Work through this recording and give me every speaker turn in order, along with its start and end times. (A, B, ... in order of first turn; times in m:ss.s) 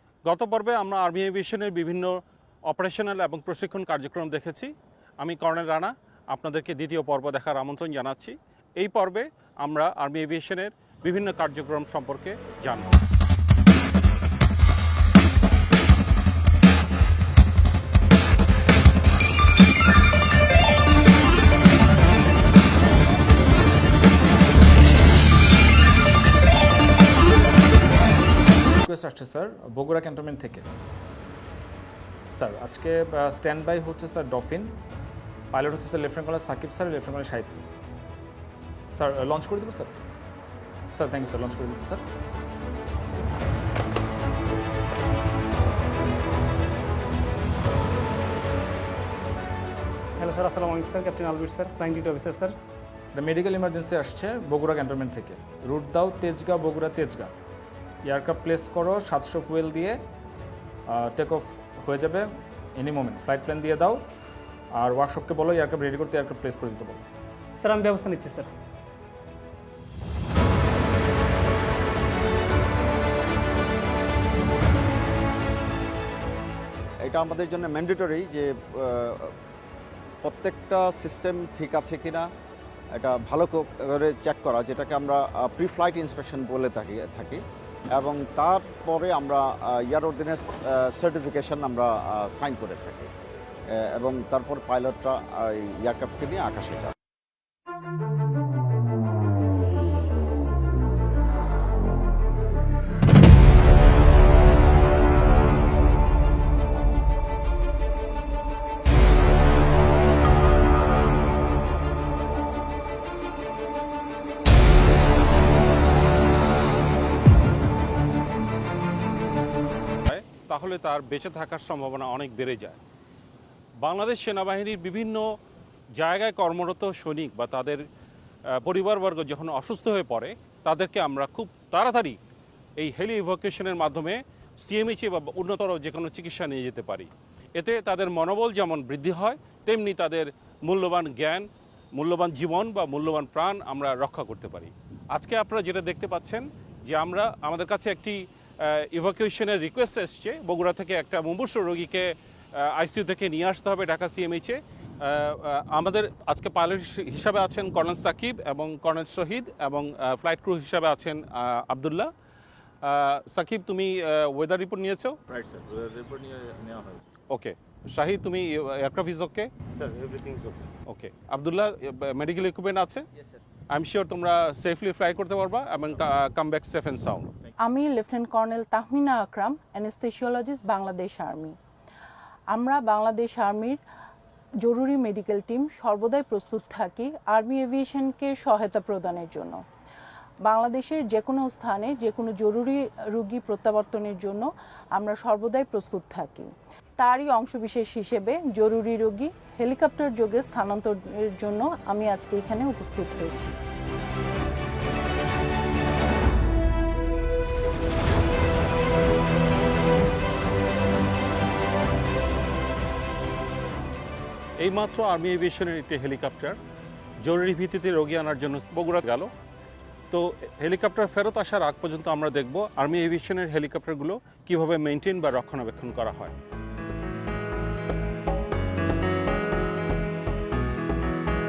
0:00.2-0:13.0 A
0:28.7-0:30.7 B
0:32.3-0:34.8 B
0:35.5-0:37.6 B
0:38.9-0:40.0 B
0:40.9-0:42.0 B
0:50.2-0:52.5 C
0:53.1-0:57.3 B
0:58.0-1:00.0 B
1:00.9-1:04.0 B
1:04.8-1:07.0 B
1:07.6-1:08.5 C
1:17.0-1:19.3 D
1:20.2-1:22.3 D
1:23.0-1:27.4 D
1:27.9-1:33.1 D
1:33.8-1:36.9 D
2:00.0-2:02.8 A
2:03.8-2:05.3 A
2:05.9-2:07.8 A
2:08.5-2:12.2 A
2:12.8-2:42.1 A
2:42.8-2:45.2 A
2:45.3-2:47.0 E
2:47.3-2:49.5 A
2:49.8-2:50.6 E
2:50.9-2:53.0 A
2:53.7-2:57.3 A
2:57.6-3:01.6 F
3:02.5-3:03.8 F
3:04.6-3:09.6 F
3:10.4-3:23.5 F
3:34.6-3:36.6 A
3:37.2-3:39.3 A
3:40.1-3:46.3 A